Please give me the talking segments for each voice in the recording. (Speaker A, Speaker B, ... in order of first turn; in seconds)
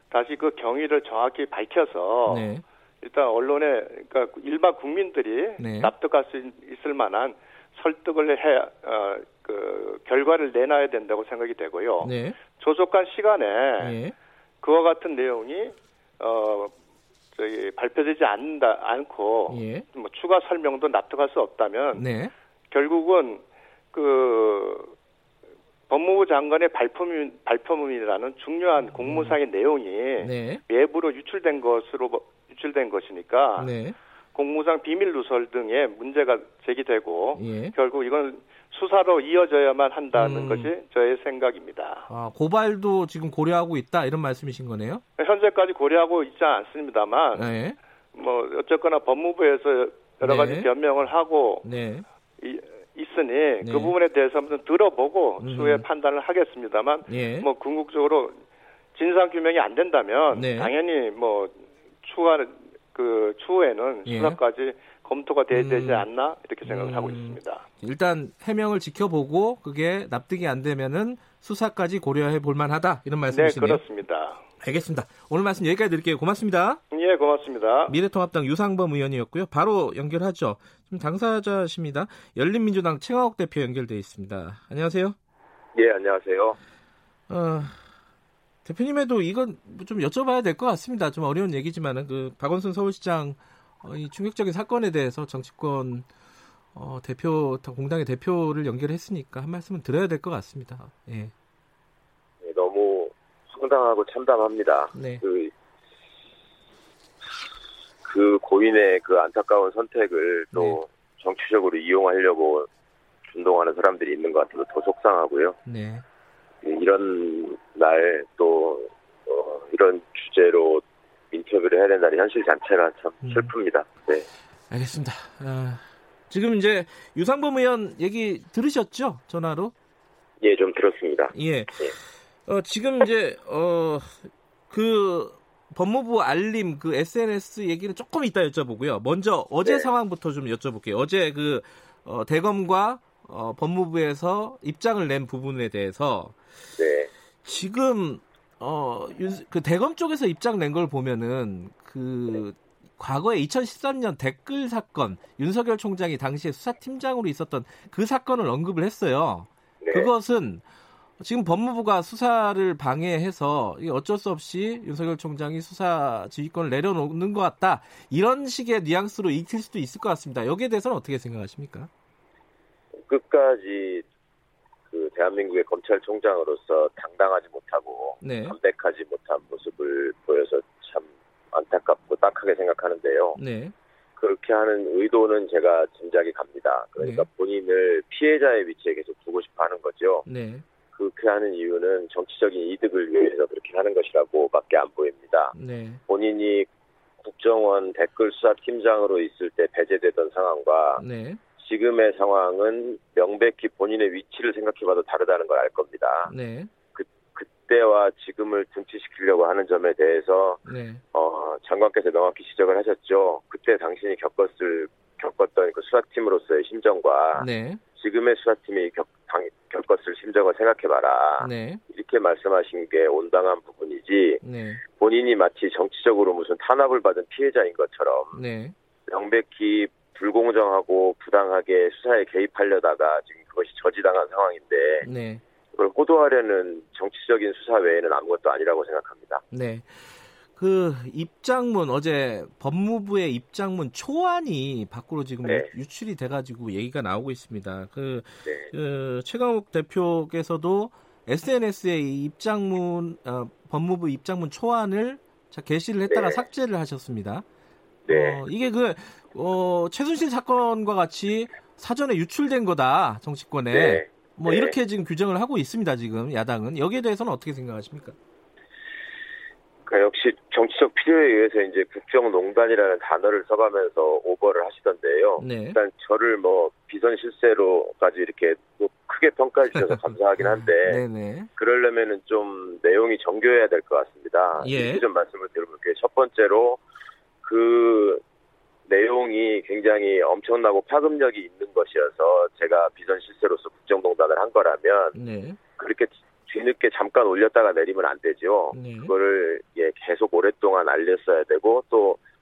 Speaker A: 0.1-14.0, 14.6-16.7, 17.3-22.1, 22.7-24.9, 25.9-33.7, 34.3-42.1, 45.2-47.5, 48.1-51.7, 52.4-58.4, 58.9-67.6, 73.3-74.4, 76.9-77.9
Speaker B: 2.3-2.6, 5.6-5.9, 12.0-12.4, 13.8-14.1, 19.5-19.9, 21.9-22.3, 29.0-29.4, 30.2-30.6, 33.6-33.9, 37.3-37.7, 40.1-40.7, 42.1-45.0, 47.3-47.8, 50.2-50.7, 51.6-52.0, 53.6-53.9, 55.4-55.8, 57.0-57.5, 60.3-60.7, 64.0-64.4, 65.5-66.0, 66.6-73.8, 74.6-76.8, 77.9-85.2, 87.3-87.8, 88.6-96.1, 96.7-101.3, 104.9-105.2, 110.5-110.8, 115.7-116.0, 123.2-123.5, 124.7-129.7, 131.3-131.9, 132.4-146.4, 147.4-160.6, 161.2-171.9, 178.2-178.6, 183.3-183.7, 187.0-187.2, 190.2-190.6, 195.5-196.0, 201.0-201.4, 206.3-206.7, 210.7-211.0, 217.4-217.8, 221.4-221.8, 224.4-224.8, 228.3-228.7, 235.0-235.4, 239.5-257.4, 258.1-268.1, 275.4-275.8, 280.4-281.5, 284.6-285.0, 295.1-295.6, 298.7-299.1
Speaker C: 85.7-86.6, 102.4-105.5, 108.0-112.7, 113.3-115.6, 116.6-124.2, 130.4-131.9, 146.8-147.1, 159.8-160.1, 173.1-174.0, 174.9-183.4, 184.2-190.2, 190.9-195.5, 196.1-196.7, 197.2-201.0, 201.6-206.3, 206.9-228.4, 229.1-235.0, 235.8-239.4, 245.4-245.7, 248.4-248.7, 256.1-256.4, 258.1-258.4, 263.7-264.8, 269.9-281.0, 281.6-286.8, 287.4-288.2, 288.9-295.1, 295.7-302.2